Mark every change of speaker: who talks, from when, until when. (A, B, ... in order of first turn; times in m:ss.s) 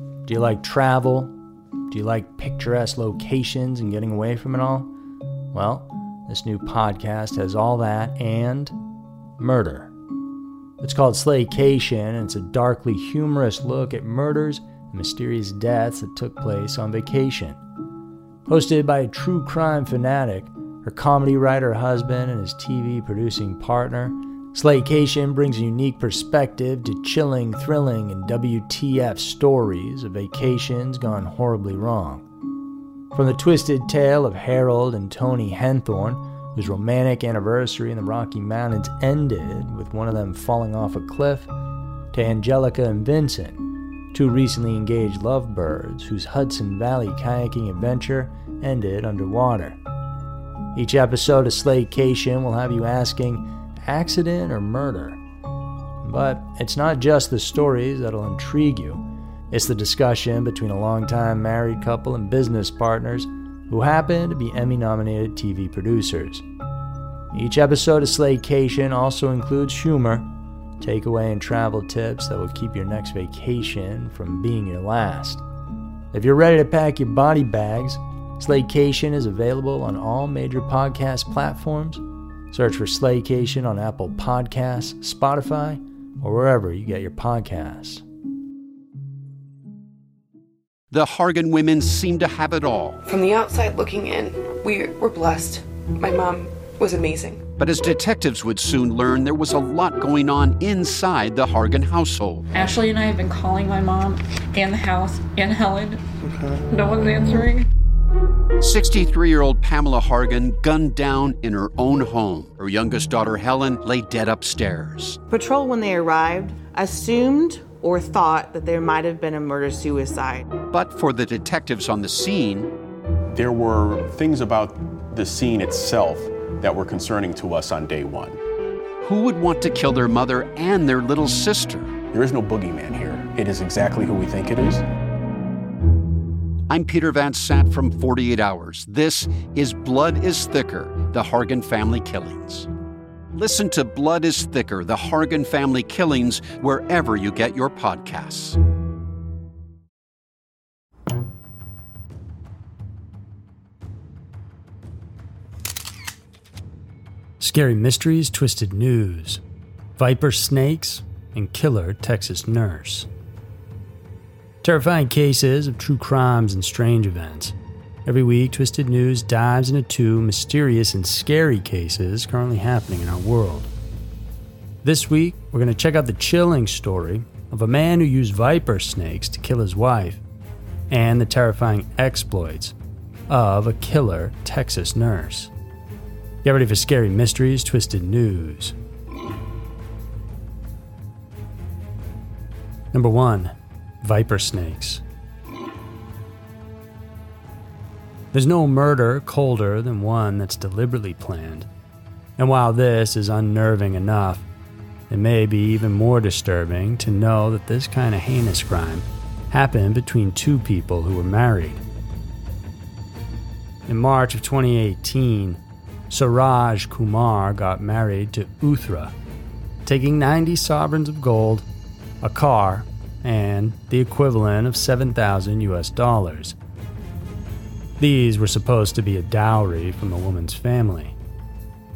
0:00.2-0:01.3 A
0:01.9-0:04.9 A
0:05.5-0:08.7 A
0:09.4-0:09.9 A
0:10.8-0:17.6 A
0:18.5-0:32.2 A
0:33.1-0:41.5 A
0:42.1-0:43.6 A
0:44.1-0:49.8 A
0:50.7-0:55.2 A
0:56.0-1:06.4 A
1:07.3-1:10.2 A
1:10.8-1:15.4 A
1:16.1-1:28.0 A
1:30.9-1:33.0 B
1:33.0-1:37.4 C
1:37.6-1:42.5 B
1:42.5-1:46.0 D
1:46.7-1:47.7 D
1:48.6-1:55.2 B
1:55.3-2:00.5 E
2:00.7-2:02.7 B
2:03.3-2:08.4 F
2:09.0-2:11.9 B
2:12.1-2:14.8 F
2:16.7-2:22.7 B
2:23.4-2:28.6 B
2:37.4-2:39.4 A
2:40.0-2:43.1 A
2:44.6-2:47.5 A
2:48.0-2:53.7 A
2:54.8-3:00.2 A
3:00.9-3:02.7 A
3:03.3-3:05.5 A
3:06.4-3:08.7 A
3:12.9-3:15.0 A
3:18.3-3:21.7 A
3:22.4-3:24.4 A
3:25.1-3:31.8 A
3:33.9-3:39.1 A
3:39.8-3:41.7 A
3:42.2-3:46.6 A
3:48.0-3:51.2 A